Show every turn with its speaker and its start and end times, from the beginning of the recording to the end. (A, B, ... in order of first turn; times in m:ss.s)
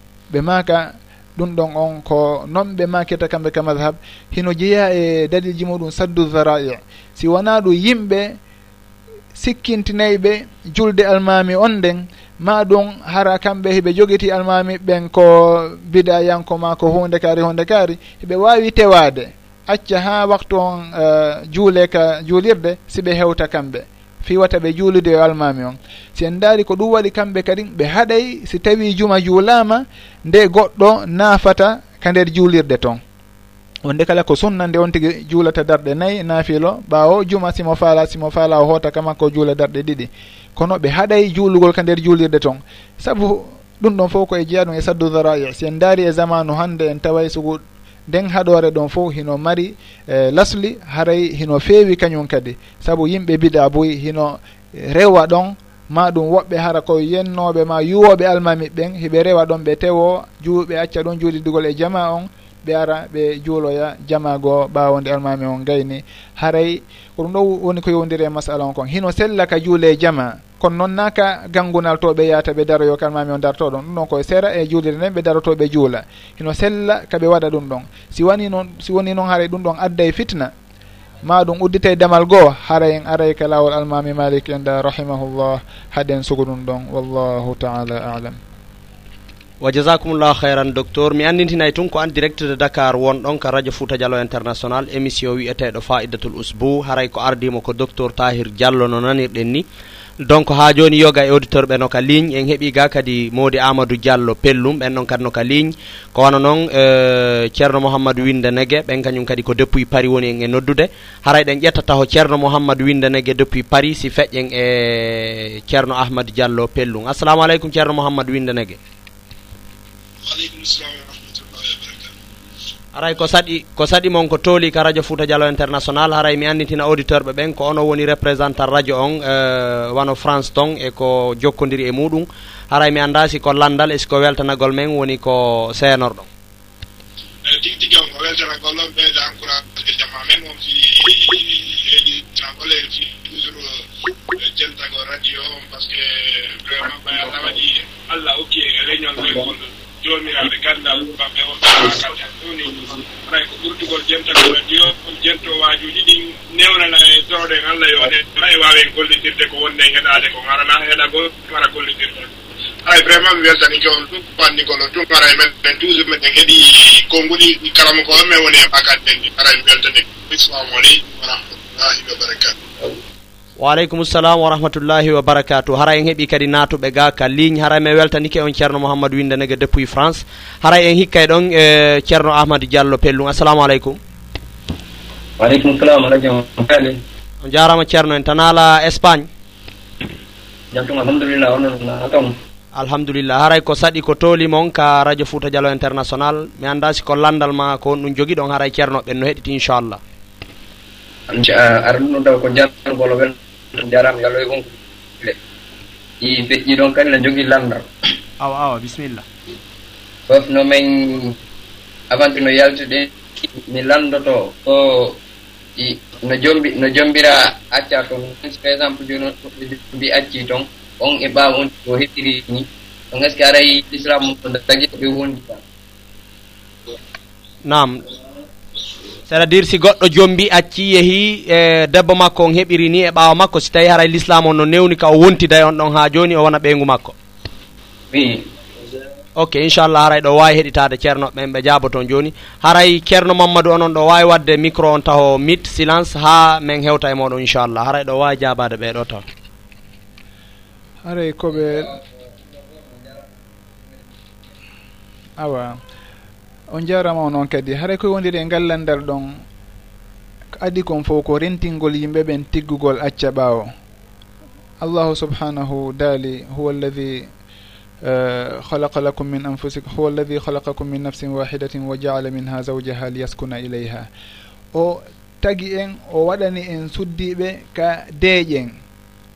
0:00.3-0:08.4 A
0:09.4-0:33.0 A
0:33.8-1:20.5 A
1:21.2-1:28.4 A
1:29.6-1:39.6 B
1:40.2-1:58.8 B
2:00.2-2:02.1 C
2:02.9-2:16.3 B
2:17.5-2:23.8 C
2:24.4-2:42.3 C
2:42.9-2:52.6 C
2:53.6-3:04.0 B
3:05.4-3:07.0 D
3:07.4-3:09.3 B
3:10.7-3:12.4 D
3:12.8-3:20.0 B
3:21.3-3:24.7 D
3:26.2-3:27.9 D
3:28.4-3:29.2 B
3:30.3-3:31.4 D
3:32.1-3:33.1 D
3:33.6-3:35.2 D
3:35.8-3:45.6 D
3:47.6-3:48.0 B
3:49.3-3:57.2 B
3:58.1-3:58.5 D
3:59.4-4:09.2 B
4:11.0-4:12.0 A
4:11.6-4:12.0 D
4:12.7-4:13.2 D
4:15.4-4:15.8 A
4:16.7-4:19.4 A
4:20.6-4:23.7 A
4:24.8-4:27.3 A
4:28.0-4:34.1 A
4:34.7-4:38.8 A